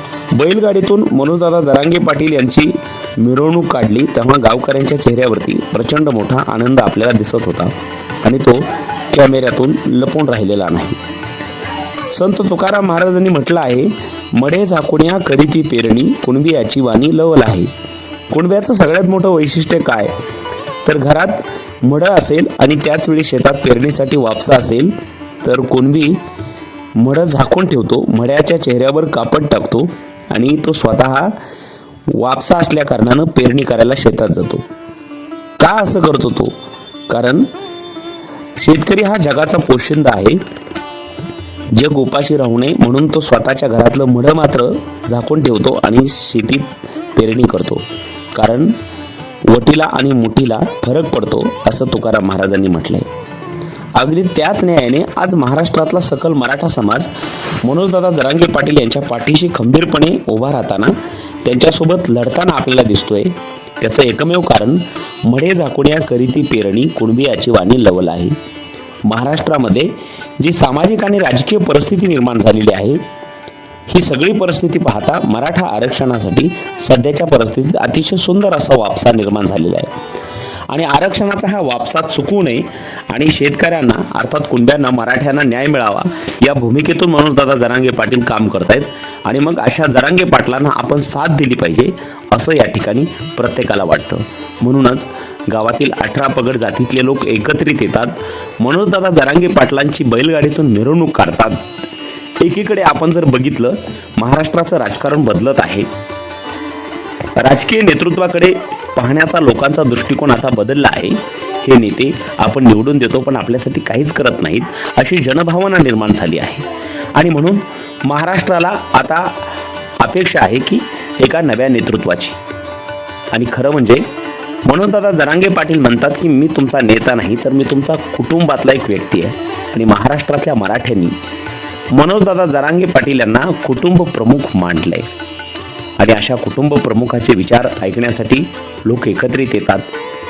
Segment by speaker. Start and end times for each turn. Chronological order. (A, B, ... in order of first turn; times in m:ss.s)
0:00.3-0:11.0 A
0:12.1-0:17.7 A
0:18.3-0:20.1 A
0:20.8-0:26.2 A
0:27.0-0:31.3 A
0:32.1-0:34.6 A
0:35.6-0:36.5 A
0:37.1-0:37.5 A
0:38.6-0:40.4 A
0:41.7-0:48.7 A
0:49.5-0:53.1 A
0:53.9-0:57.1 A
0:57.6-1:08.3 A
1:09.0-1:13.0 A
1:13.9-1:19.9 A
1:20.7-1:41.6 A
1:42.4-1:45.9 A
1:47.4-1:56.6 A
1:57.2-2:02.4 A
2:03.3-2:04.0 A
2:04.6-2:11.2 A
2:11.9-2:15.1 A
2:16.0-2:19.9 A